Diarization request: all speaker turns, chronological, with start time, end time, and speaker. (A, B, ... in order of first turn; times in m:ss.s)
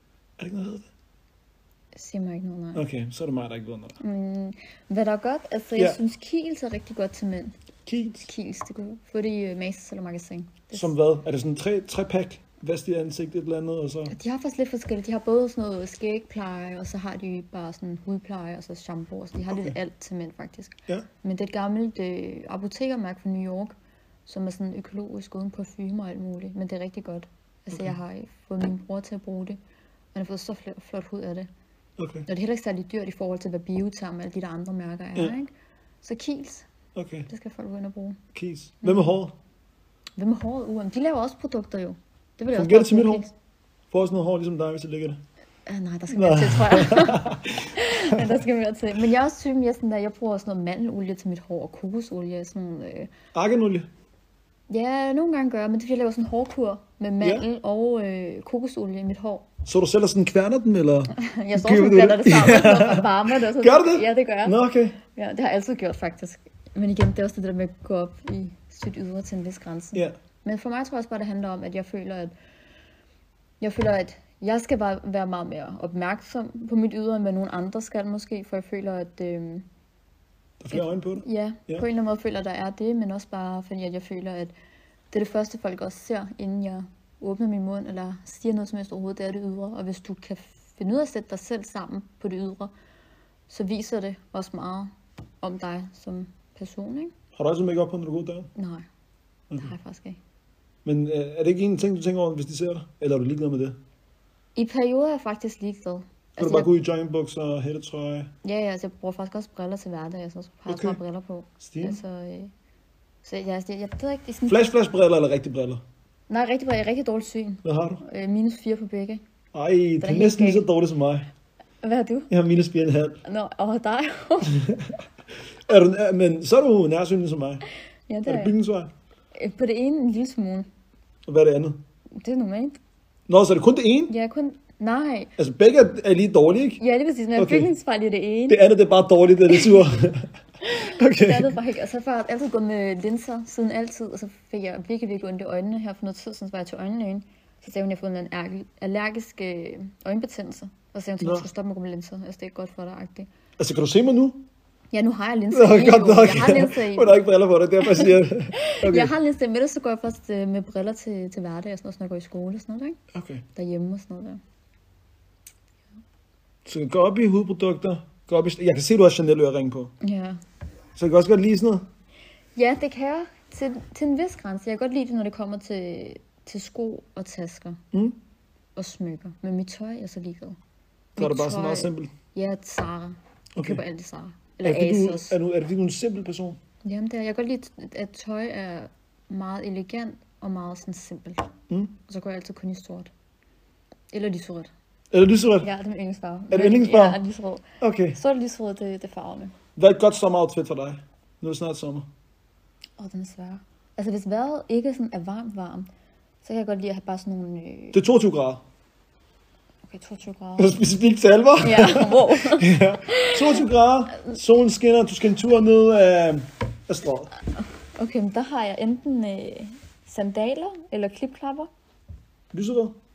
0:00.4-0:00.9 A
0:02.0-0:02.8 B
0:02.8-0:04.0 A
0:04.0-0:07.6 B
0:07.9-0:08.3 A
0:08.2-0:10.9 B
0:10.7-0:14.1 A
0:14.1-0:29.6 B
0:30.1-0:31.5 B
0:32.0-0:32.3 A
0:32.3-0:35.5 B
0:36.0-0:36.7 B
0:37.0-0:37.3 A
0:37.3-0:38.2 B
0:38.4-0:39.4 A
0:38.8-0:39.1 B
0:40.2-0:43.3 B
0:42.5-0:43.3 A
0:43.9-0:45.2 A
0:45.7-0:53.1 B
0:46.1-0:48.2 A
0:53.3-0:53.9 A
0:54.7-0:59.5 B
0:59.7-1:05.0 A
1:01.1-1:12.3 B
1:13.6-1:19.7 B
1:20.6-1:21.8 A
1:20.7-1:24.5 B
1:25.1-1:32.7 B
1:33.5-1:37.1 B
1:37.4-1:38.5 A
1:38.6-1:38.9 B
1:39.6-1:40.2 B
1:40.8-1:43.8 A
1:44.6-1:46.7 B
1:46.4-1:48.3 A
1:48.4-1:52.5 B
1:50.7-1:51.0 A
1:51.6-1:52.0 A
1:53.2-1:54.7 B
1:54.5-1:55.8 A
1:56.3-1:59.2 B
1:57.6-1:58.0 A
1:59.5-2:01.3 A
2:00.0-2:00.7 B
2:01.8-2:02.3 B
2:02.3-2:03.2 A
2:03.2-2:04.7 B
2:04.5-2:05.0 A
2:05.7-2:07.6 A
2:08.1-2:08.5 B
2:08.3-2:08.9 A
2:09.3-2:10.7 B
2:11.3-2:11.8 A
2:12.2-2:12.8 B
2:13.3-2:14.1 A
2:14.1-2:15.3 B
2:15.4-2:16.8 A
2:16.8-2:18.6 B
2:17.4-2:17.7 A
2:18.5-2:21.6 A
2:20.6-2:33.3 B
2:31.2-2:31.5 A
2:33.6-2:34.4 A
2:34.9-2:37.2 B
2:35.5-2:39.1 A
2:37.8-2:43.0 B
2:43.1-2:43.4 A
2:43.6-2:44.4 B
2:46.6-2:49.9 A
2:50.0-2:50.4 B
2:51.0-2:51.9 A
2:52.6-2:57.8 B
2:57.9-2:58.2 A
2:58.8-3:00.6 B
3:01.2-3:05.4 B
3:01.2-3:02.1 A
3:03.6-3:03.8 A
3:04.6-3:06.6 A
3:06.8-3:11.5 B
3:12.1-3:13.1 B
3:14.1-3:14.7 B
3:15.1-3:15.7 A
3:15.6-3:19.5 B
3:16.5-3:17.2 A
3:17.8-3:18.2 A
3:19.8-3:22.1 A
3:23.0-3:25.9 B
3:26.4-3:28.0 B
3:27.9-3:28.6 A
3:29.9-3:30.8 B
3:30.6-3:37.3 A
3:31.6-3:33.6 B
3:37.8-3:41.7 B
3:42.5-3:43.0 A